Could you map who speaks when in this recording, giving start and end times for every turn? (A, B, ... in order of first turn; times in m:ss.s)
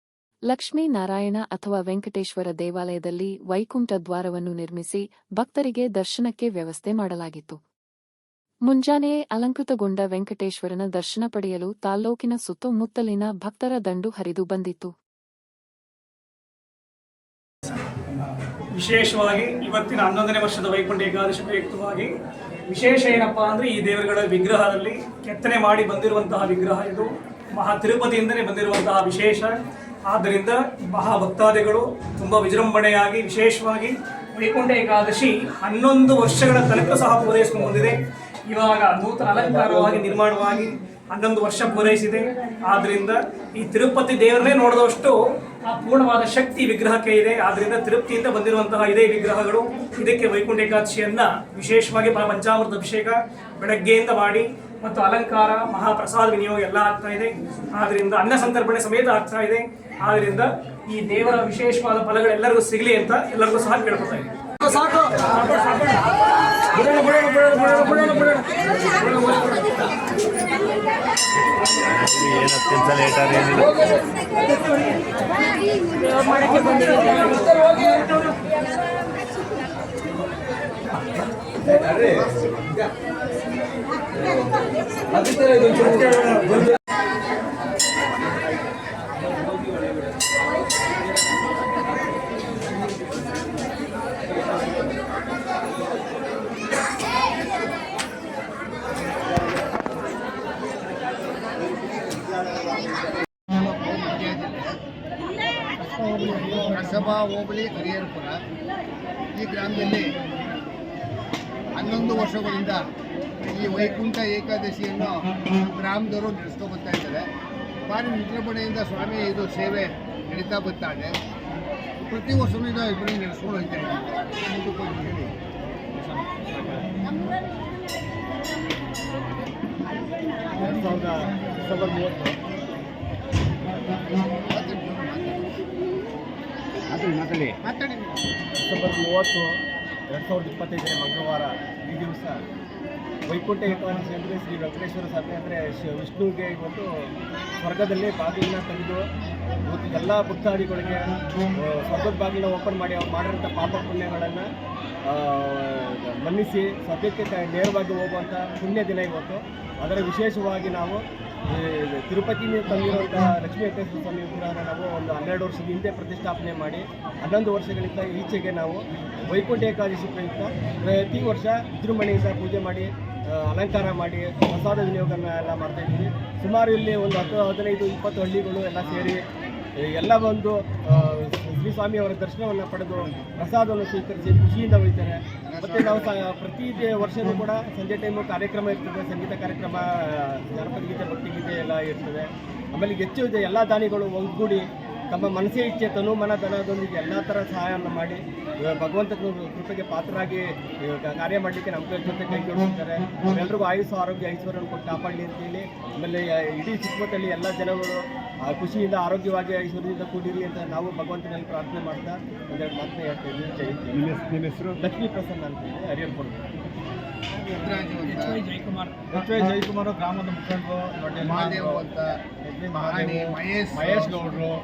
0:00.5-0:07.6 A
0:08.7-0:14.9 A
0:18.7-0:22.1 B
0:22.7-0:29.5 B
0:30.1-0:45.1 B
0:45.6-1:06.1 B
1:06.7-1:09.9 B
1:12.1-1:13.6 C
1:13.4-1:14.0 B
1:16.2-1:18.3 B
1:21.8-1:22.5 C
1:25.5-1:26.4 C
1:25.7-1:26.6 B
1:42.9-1:44.8 D
1:46.0-1:48.4 D
1:49.3-1:50.2 D
1:51.7-1:52.9 D
1:53.4-1:57.3 D
1:57.9-2:01.2 D
2:02.0-2:05.3 D
2:10.6-2:12.4 E
2:13.6-2:14.3 E
2:14.4-2:15.5 D
2:16.9-2:18.1 D
2:18.6-2:19.5 E
2:20.1-2:22.4 E
2:23.3-2:26.9 E
2:27.6-2:29.0 E
2:29.6-2:31.0 E
2:31.6-2:34.4 E
2:35.1-2:59.2 E
2:58.8-2:59.1 D
2:59.8-3:34.1 E
3:03.0-3:03.3 D
3:05.5-3:06.2 D
3:34.8-3:36.4 E
3:37.4-3:38.4 D
3:38.1-3:38.9 B
3:39.1-3:39.9 E
3:41.0-3:41.8 E
3:41.2-3:42.2 D
3:42.4-3:43.1 E
3:42.7-3:44.4 D